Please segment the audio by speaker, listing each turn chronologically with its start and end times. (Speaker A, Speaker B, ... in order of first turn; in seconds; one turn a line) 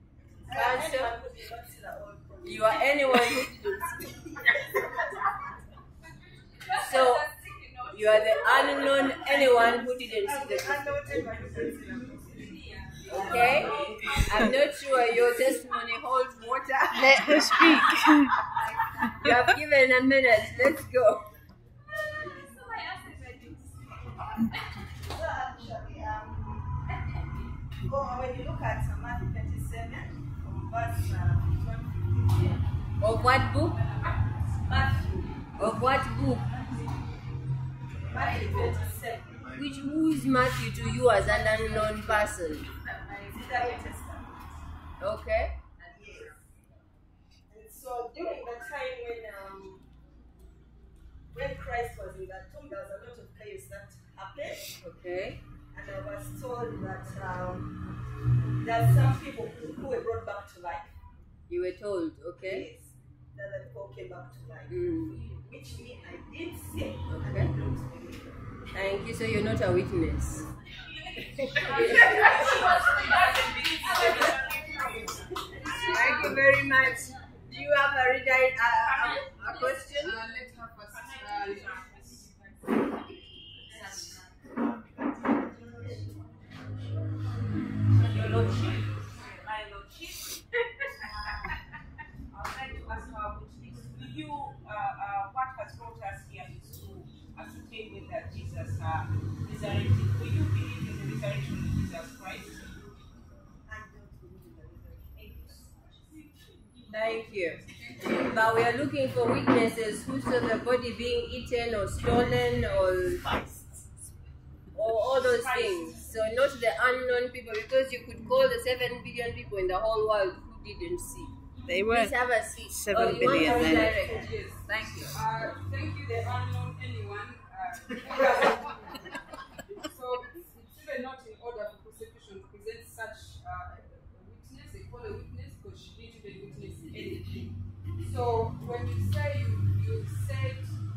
Speaker A: 0.5-3.2
Speaker B: 0.5-1.2
Speaker B: 2.4-4.2
Speaker C: 6.6-15.6
Speaker B: 6.7-7.3
Speaker B: 7.9-11.0
Speaker A: 10.6-12.3
Speaker B: 13.1-17.6
Speaker A: 13.4-14.2
Speaker D: 13.5-13.9
Speaker E: 16.9-18.4
Speaker B: 19.2-21.3
Speaker C: 22.0-23.8
Speaker A: 25.0-26.8
Speaker A: 27.9-32.6
Speaker B: 33.0-33.8
Speaker A: 34.7-35.3
Speaker B: 35.6-36.6
Speaker A: 38.1-39.6
Speaker C: 38.2-38.9
Speaker B: 39.5-42.7
Speaker A: 41.3-42.3
Speaker A: 43.1-44.6
Speaker B: 45.0-45.6
Speaker A: 45.9-46.4
Speaker A: 47.5-49.9
Speaker A: 51.3-54.7
Speaker B: 54.8-55.4
Speaker A: 55.7-57.7
Speaker A: 58.6-60.9
Speaker B: 61.5-62.7
Speaker A: 62.4-68.4
Speaker B: 64.7-65.2
Speaker B: 67.1-67.5
Speaker B: 68.7-70.5
Speaker B: 71.4-72.6
Speaker D: 71.6-75.4
Speaker C: 71.8-74.4
Speaker C: 75.4-76.5
Speaker B: 75.7-80.2
Speaker D: 78.8-80.0
Speaker C: 79.6-83.0
Speaker D: 80.9-82.1
Speaker C: 83.6-84.4
Speaker D: 88.0-91.5
Speaker D: 92.3-102.6
Speaker A: 103.7-106.2
Speaker B: 106.9-113.4
Speaker C: 107.7-108.3
Speaker B: 114.7-125.2
Speaker D: 115.0-116.2
Speaker E: 121.7-122.2
Speaker E: 122.7-124.0
Speaker C: 122.9-129.0
Speaker C: 129.8-140.8